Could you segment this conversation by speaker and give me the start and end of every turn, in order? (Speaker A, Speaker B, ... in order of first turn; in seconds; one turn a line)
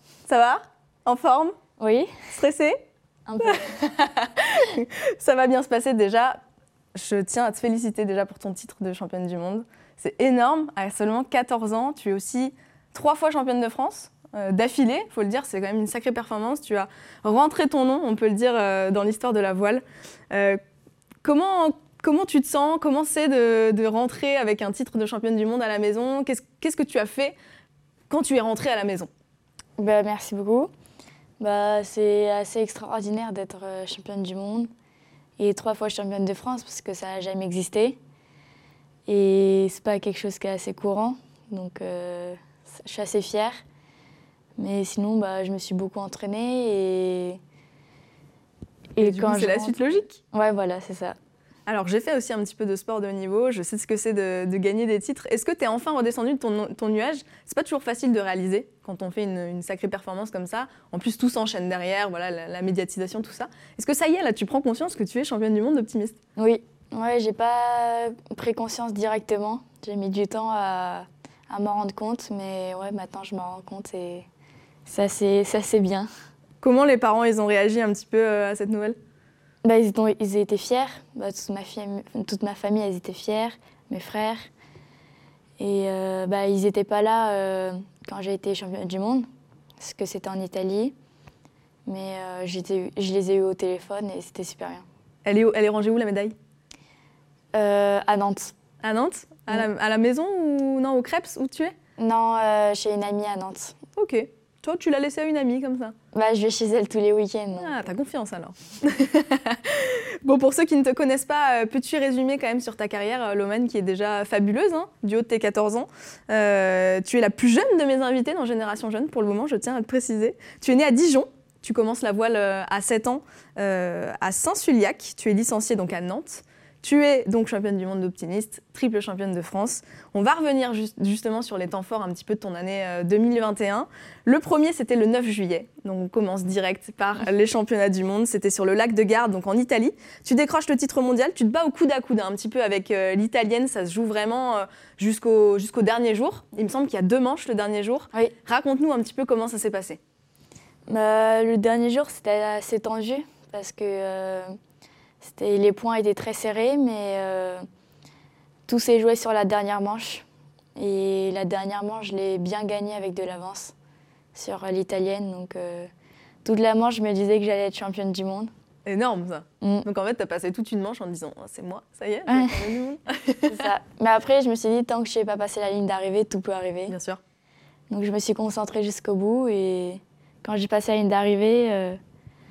Speaker A: 0.3-1.6
Speaker B: 1.8-2.1
Speaker A: 2.3-2.8
Speaker B: 3.3-3.9
Speaker A: 3.4-6.4
Speaker A: 6.9-20.6
Speaker A: 21.2-27.3
Speaker A: 28.1-29.1
Speaker B: 29.8-30.7
Speaker B: 31.4-34.7
Speaker B: 35.4-38.0
Speaker B: 39.1-43.6
Speaker B: 44.6-47.4
Speaker B: 49.0-51.2
Speaker A: 49.0-50.2
Speaker A: 51.7-66.2
Speaker B: 66.4-74.3
Speaker B: 74.9-76.1
Speaker A: 76.6-79.0
Speaker B: 79.6-84.4
Speaker B: 85.6-89.3
Speaker B: 89.8-90.9
Speaker B: 91.8-94.8
Speaker A: 95.2-96.3
Speaker B: 97.5-98.5
Speaker A: 98.8-101.7
Speaker B: 102.0-103.8
Speaker A: 104.0-106.0
Speaker B: 106.1-107.9
Speaker A: 107.6-150.0
Speaker B: 150.9-154.5
Speaker B: 155.2-157.7
Speaker B: 158.7-160.2
Speaker B: 160.8-163.7
Speaker B: 164.3-165.9
Speaker B: 166.4-168.5
Speaker A: 168.8-173.7
Speaker B: 169.6-169.9
Speaker B: 172.3-172.7
Speaker B: 173.5-177.0
Speaker A: 176.9-177.2
Speaker B: 177.9-182.0